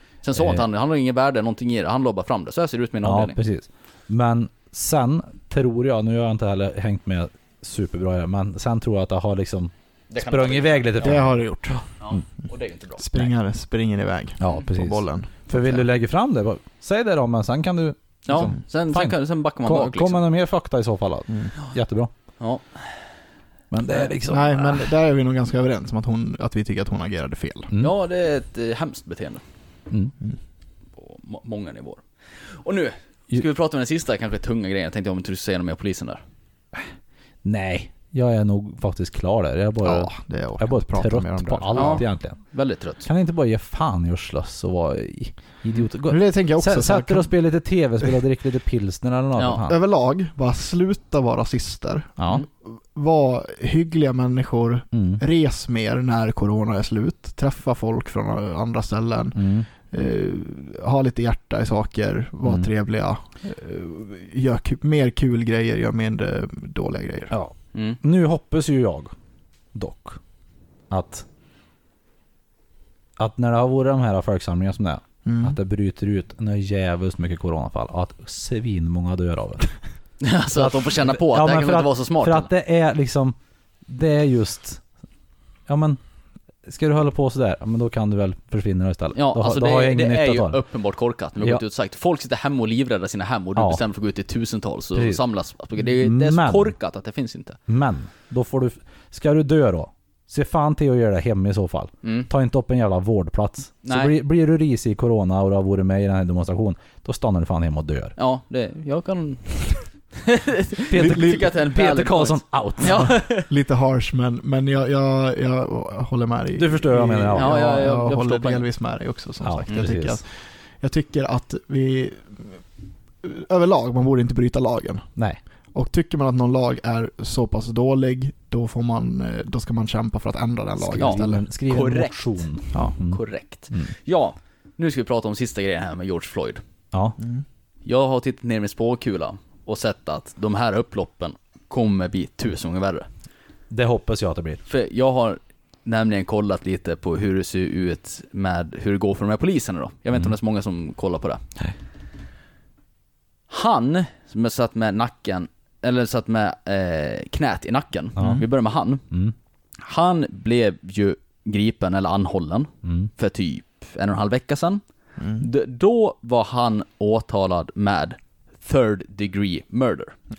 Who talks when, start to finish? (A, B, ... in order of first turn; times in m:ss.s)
0:00.2-0:03.4 A
0:00.3-0:00.6 B
0:03.0-0:12.2 B
0:10.1-0:11.2 A
0:11.0-0:11.8 C
0:12.0-0:13.0 A
0:13.0-0:15.8 C
0:14.4-0:22.1 B
0:18.2-0:20.2 A
0:22.4-0:22.9 A
0:23.7-0:24.9 B
0:24.3-0:27.7 C
0:27.8-0:29.4 A
0:31.0-0:36.2 A
0:37.4-0:42.4 B
0:39.8-0:42.0 C
0:41.7-0:43.0 A
0:43.0-0:49.8 B
0:46.1-0:47.3 C
0:49.4-0:49.6 A
0:49.6-1:07.3 C
0:52.2-0:52.4 B
0:54.9-0:55.2 B
0:59.3-0:59.7 B
1:02.4-1:02.7 B
1:07.3-1:09.1 B
1:07.7-1:08.0 A
1:09.7-1:10.2 B
1:10.9-1:11.2 B
1:13.2-1:19.7 B
1:15.2-1:15.6 C
1:20.2-1:22.5 A
1:20.5-1:23.4 B
1:23.9-1:24.8 B
1:25.7-1:26.0 B
1:26.6-1:30.6 B
1:29.1-1:37.6 A
1:33.6-1:33.8 B
1:34.9-1:35.2 B
1:35.8-1:36.7 B
1:37.7-1:48.2 B
1:42.0-1:42.3 A
1:43.8-1:44.1 A
1:48.2-1:53.5 A
1:50.9-1:53.1 B
1:50.9-1:51.5 C
1:52.9-2:02.6 C
1:56.6-1:57.8 B
1:57.3-1:58.6 A
1:59.4-2:00.2 B
2:03.2-2:05.0 C
2:05.7-2:11.4 C
2:10.8-2:13.9 B
2:11.0-2:16.6 A
2:16.9-2:17.2 B
2:17.8-2:23.0 A
2:23.7-2:24.6 B
2:24.7-2:31.4 A
2:33.5-2:39.0 A
2:38.2-2:38.4 B
2:39.8-2:44.8 A
2:42.8-2:43.1 B
2:45.2-2:45.5 C
2:45.4-2:50.1 A